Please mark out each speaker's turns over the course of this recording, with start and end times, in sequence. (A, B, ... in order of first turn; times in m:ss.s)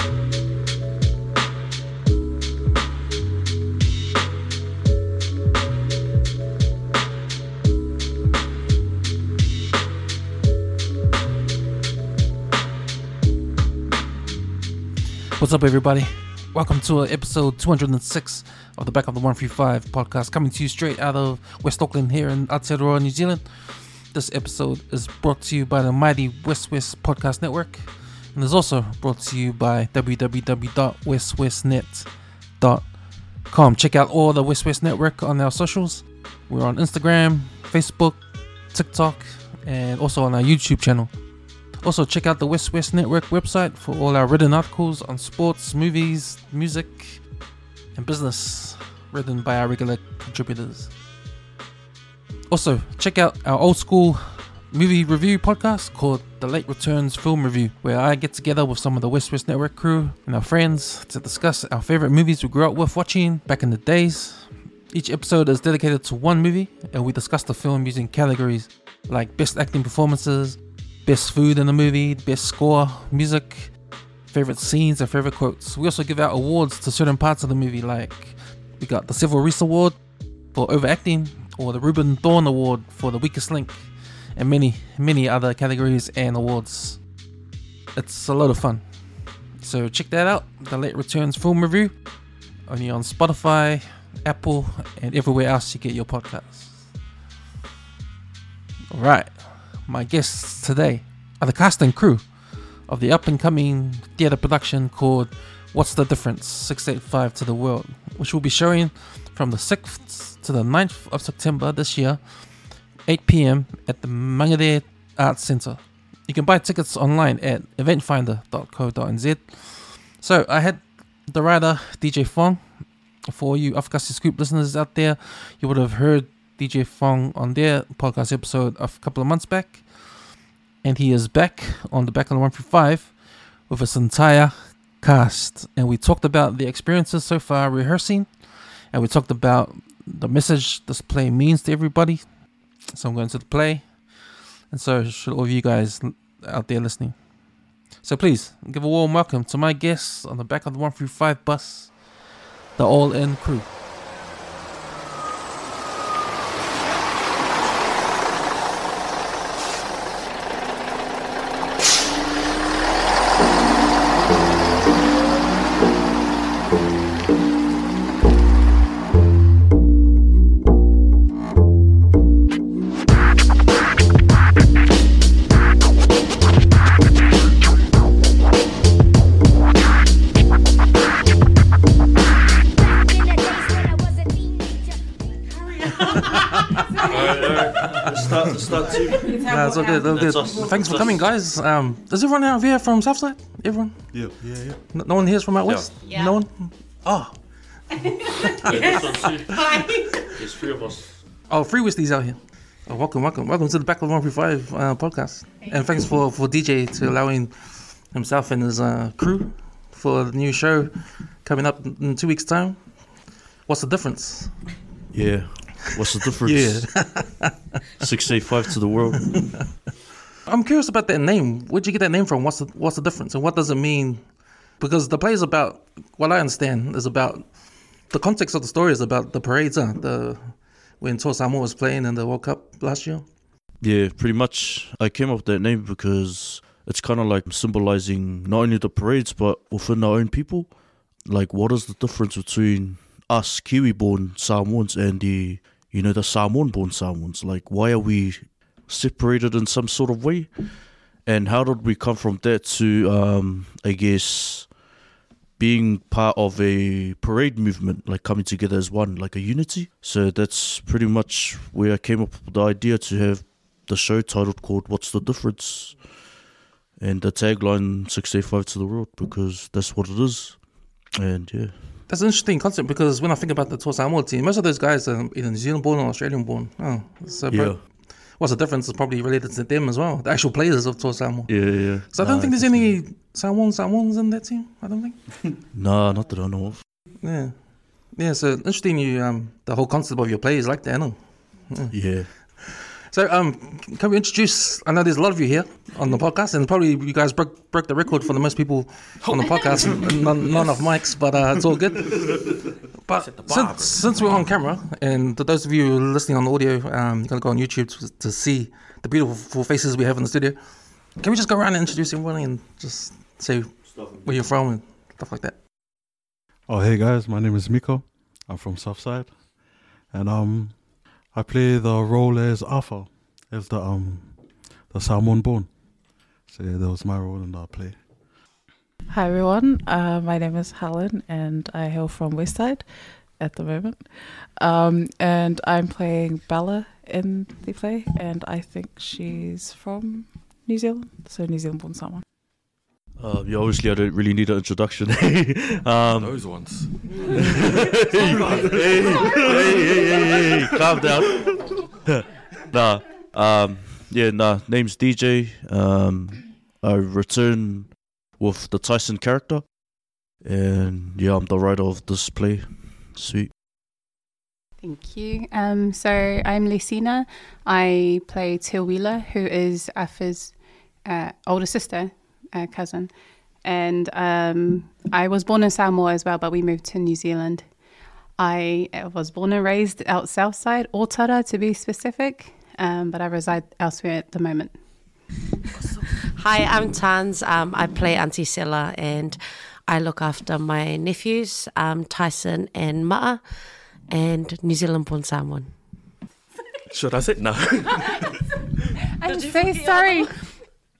0:15.4-0:50.9 A
0:52.5-1:27.2 A
1:27.9-1:36.9 A
1:38.9-2:33.7 A
3:07.0-3:11.3 B
3:09.3-3:10.1 C
3:09.5-3:17.9 A
3:14.1-3:14.8 D
3:15.6-3:15.9 E
3:16.0-3:16.4 F
3:18.5-3:19.8 B
3:18.8-3:20.0 F
3:20.4-3:21.2 B
3:21.5-3:34.8 A
3:35.1-3:37.3 B
3:36.4-3:37.6 A
3:38.0-3:39.7 B
3:40.4-3:53.3 A
3:53.8-4:14.9 B
4:15.6-4:26.3 B
4:27.0-4:32.0 B
4:32.1-4:45.6 A
4:37.5-4:37.8 B
4:41.5-4:43.0 B
4:45.7-4:46.8 B
4:47.2-5:02.4 A
4:51.9-4:52.3 B
4:59.2-5:00.9 E
5:03.0-5:15.6 A
5:03.1-5:04.5 E
5:13.9-5:14.2 B
5:16.7-5:28.2 D
5:29.1-5:42.2 G
5:43.2-5:47.0 B
5:46.1-5:50.7 E
5:47.6-6:03.5 B
6:04.8-6:17.8 C
6:18.4-6:24.8 C
6:26.3-6:36.1 F
6:36.9-6:38.4 E
6:39.2-6:40.8 C
6:39.2-6:40.6 F